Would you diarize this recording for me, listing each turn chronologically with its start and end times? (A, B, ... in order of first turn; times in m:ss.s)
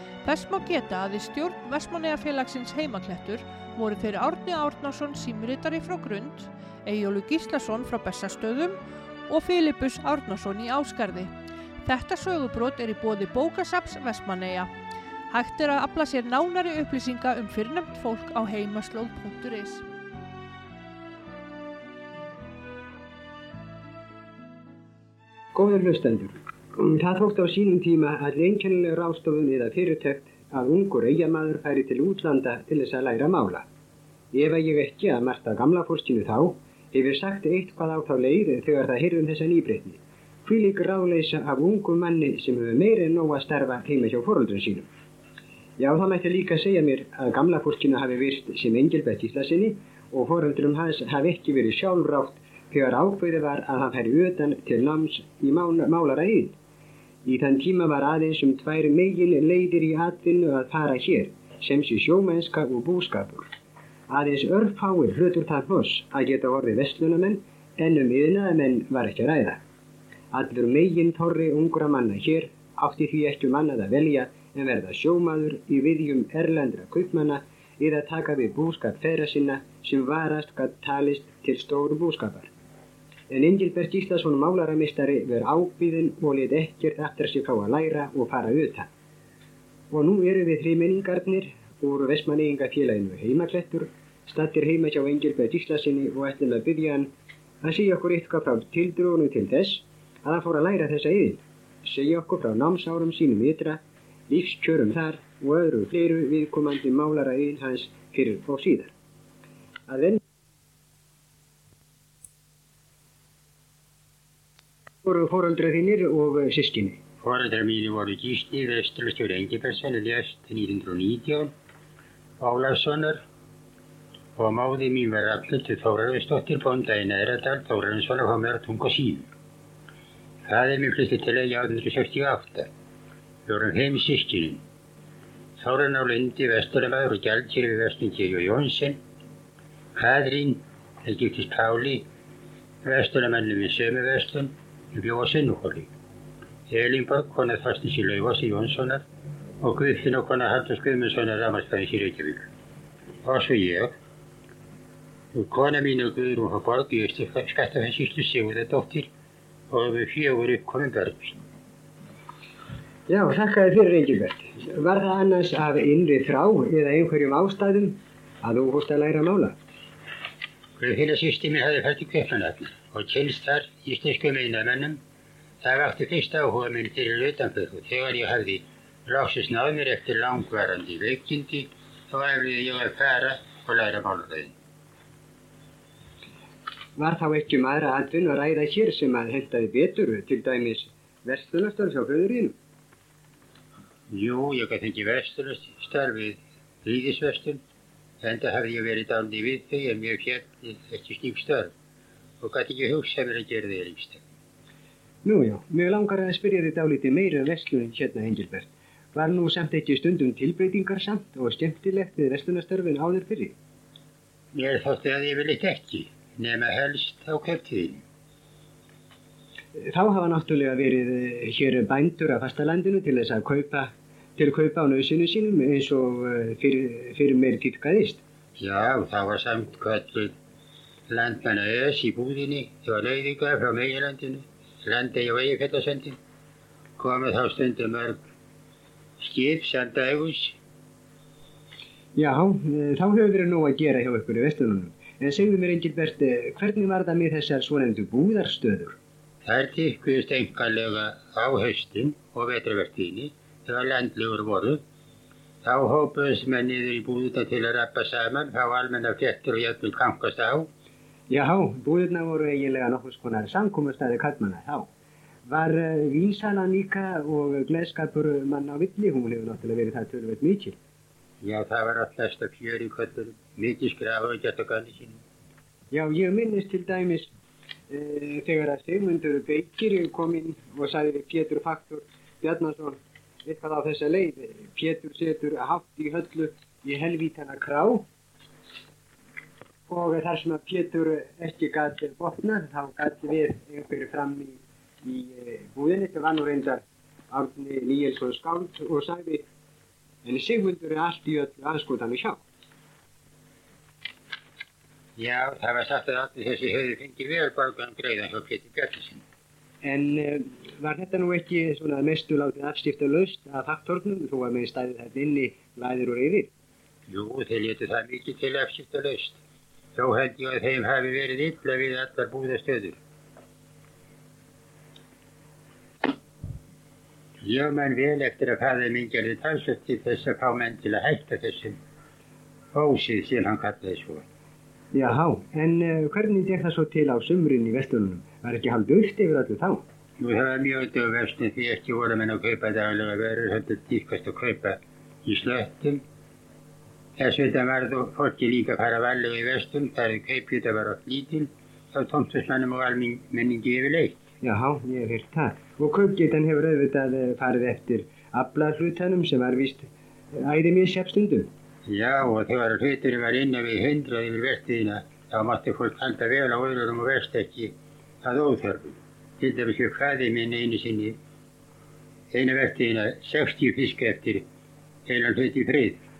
0:00.2-0:14.7 A
0:15.3-0:19.8 A
0:25.5-0:33.7 B
0:34.3-0:44.9 B
0:45.8-0:56.6 B
0:57.2-1:03.5 B
1:04.1-1:09.6 B
1:10.3-1:22.5 B
1:23.3-1:28.9 B
1:29.9-1:37.1 B
1:37.6-1:48.9 B
1:49.9-1:50.2 B
1:55.0-1:57.0 B
1:57.2-2:01.5 C
2:02.4-2:03.2 C
2:04.4-2:09.3 C
2:10.4-2:12.7 C
2:13.5-2:14.6 C
2:15.6-2:19.0 C
2:20.0-2:22.1 C
2:22.8-2:25.9 C
2:26.7-2:29.0 C
2:29.6-2:32.4 C
2:33.2-2:33.9 C
2:35.3-2:39.1 C
2:39.7-2:41.4 C
2:43.1-2:49.6 B
2:50.8-2:55.0 C
2:55.6-3:04.5 C
3:07.0-3:12.6 B
3:14.1-3:17.6 C
3:18.2-3:21.7 C
3:22.4-3:24.2 C
3:25.2-3:33.6 B
3:34.5-3:38.0 C
3:39.8-3:48.2 B
3:48.6-3:50.3 C
3:51.1-3:56.2 C
3:57.0-3:58.2 C
3:59.2-4:00.6 C
4:02.2-4:09.0 B
4:09.4-4:14.8 C
4:15.6-4:20.7 C
4:21.3-4:24.9 B
4:25.5-4:30.8 B
4:31.4-4:35.2 C
4:35.9-4:37.3 B
4:37.9-4:48.1 B
4:49.9-4:59.4 B
5:00.2-5:02.4 B
5:05.2-5:09.2 C
5:09.8-5:16.5 B
5:17.1-5:19.4 C
5:19.9-5:23.0 C
5:27.4-5:31.8 C
5:32.7-5:34.2 C
5:34.9-5:39.8 B
5:40.2-5:46.0 C
5:47.2-5:54.2 C
5:54.4-6:01.5 B
6:01.8-6:11.2 C
6:12.3-6:14.4 C
6:15.1-6:16.0 C